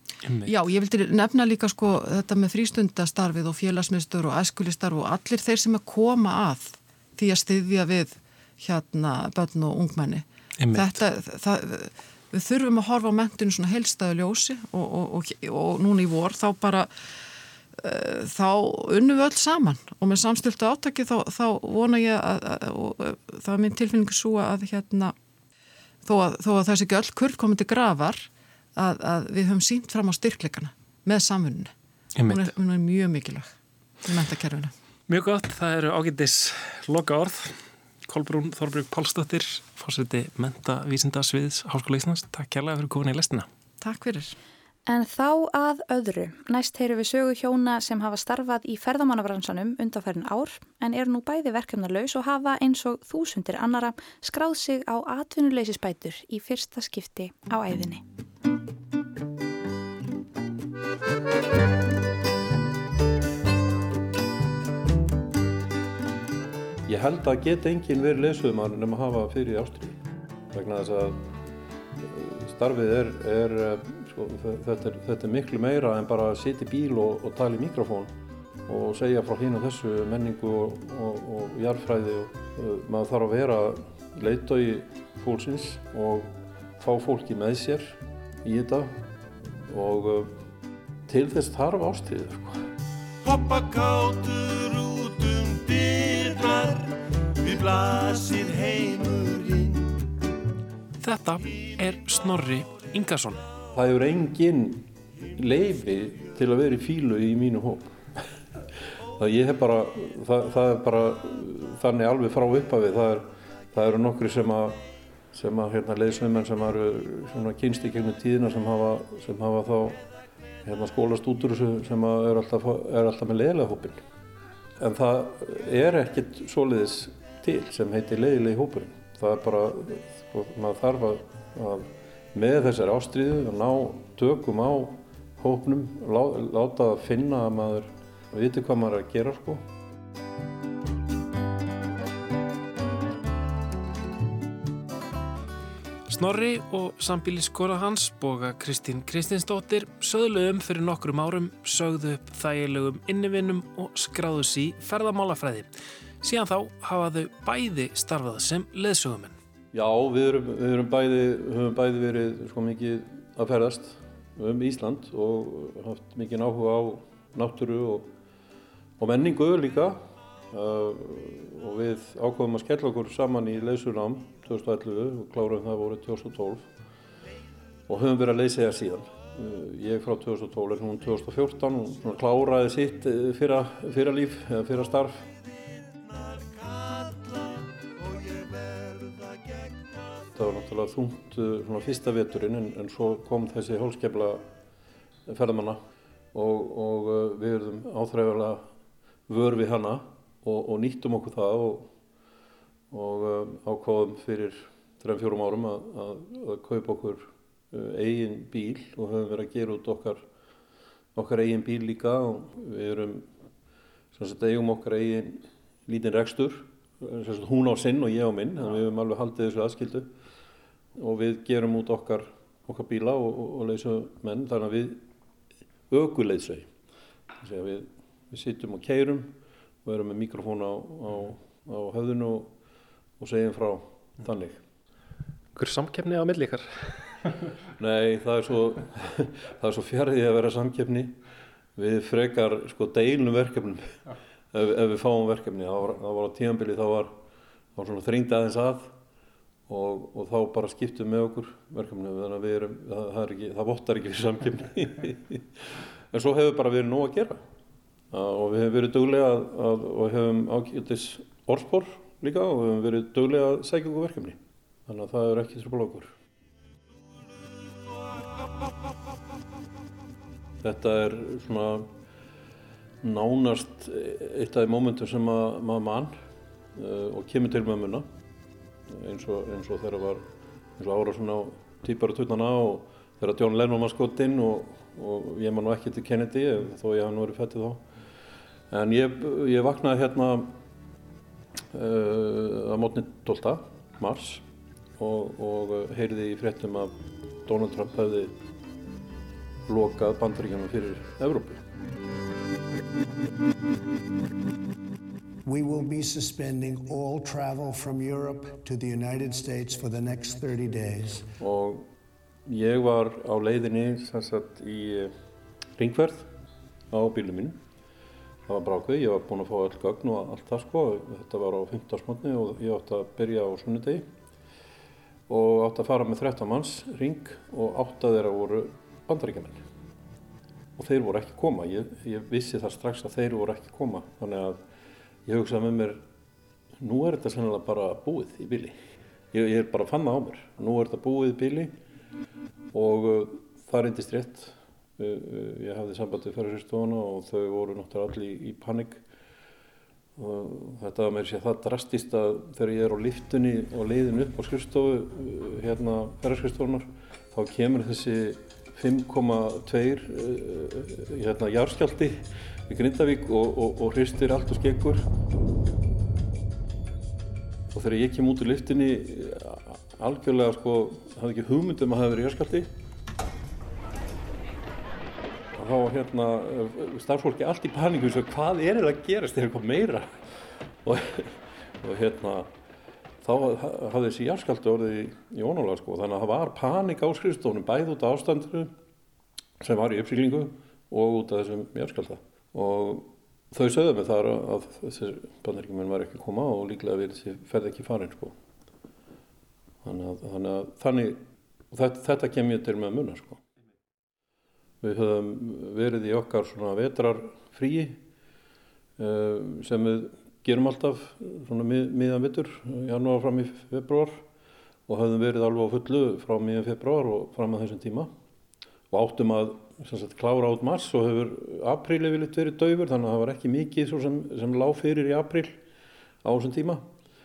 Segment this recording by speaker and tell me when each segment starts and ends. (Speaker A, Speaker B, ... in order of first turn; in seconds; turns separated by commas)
Speaker A: 0.2-0.5, Speaker B: 0.5-16.9, Speaker A: 10.6-10.9, Speaker B: 17.8-25.1, Speaker B: 26.0-31.7, Speaker A: 32.2-32.4, Speaker B: 32.3-33.5, Speaker B: 34.0-34.7, Speaker A: 35.1-43.5, Speaker B: 43.8-44.4, Speaker C: 44.9-58.0, Speaker D: 66.9-70.0, Speaker D: 70.5-71.2, Speaker D: 72.0-78.1, Speaker D: 78.7-88.9, Speaker D: 89.7-90.3, Speaker D: 91.1-92.6, Speaker E: 93.2-100.0, Speaker A: 101.0-103.4, Speaker D: 103.7-108.0, Speaker D: 109.2-114.8, Speaker D: 115.3-120.0, Speaker D: 120.6-124.0, Speaker D: 124.8-139.6, Speaker A: 146.1-159.3, Speaker D: 159.7-168.1, Speaker D: 169.0-170.0, Speaker D: 170.5-176.7, Speaker D: 177.9-185.3, Speaker E: 186.1-189.9, Speaker D: 190.3-194.4, Speaker D: 195.3-195.8, Speaker D: 196.3-198.7, Speaker D: 199.3-201.9, Speaker D: 202.9-210.2, Speaker D: 211.1-213.2, Speaker D: 214.1-220.1, Speaker D: 221.0-225.0, Speaker D: 225.9-226.7, Speaker D: 227.4-232.5, Speaker D: 233.2-234.6, Speaker A: 235.5-237.3, Speaker D: 237.8-241.1, Speaker D: 241.8-243.9, Speaker D: 244.5-247.1, Speaker D: 247.8-248.9, Speaker D: 249.7-255.4, Speaker D: 256.1-257.4, Speaker D: 258.1-266.1, Speaker D: 270.6-271.9, Speaker D: 273.0-276.1, Speaker D: 276.7-278.1, Speaker D: 278.9-280.2, Speaker D: 280.8-287.8, Speaker D: 288.7-290.5, Speaker D: 291.7-294.4, Speaker D: 295.0-296.9, Speaker D: 297.4-298.3, Speaker D: 299.7-301.6, Speaker F: 305.4-311.3, Speaker D: 311.4-311.9, Speaker D: 312.5-315.1, Speaker D: 315.8-316.3, Speaker D: 316.9-317.6, Speaker D: 318.5-324.1, Speaker D: 325.3-329.6, Speaker D: 330.8-334.6, Speaker D: 335.3-336.0, Speaker D: 336.8-338.8, Speaker D: 339.3-341.7, Speaker D: 342.7-349.0, Speaker D: 350.2-365.0, Speaker D: 367.7-372.7, Speaker D: 375.5-380.1, Speaker D: 380.8-382.5, Speaker D: 383.2-388.7, Speaker D: 389.6-398.3, Speaker D: 399.8-401.2, Speaker D: 401.7-403.4, Speaker D: 404.8-408.0, Speaker D: 409.0-414.2, Speaker D: 414.9-418.1, Speaker D: 418.9-425.6, Speaker D: 426.2-426.8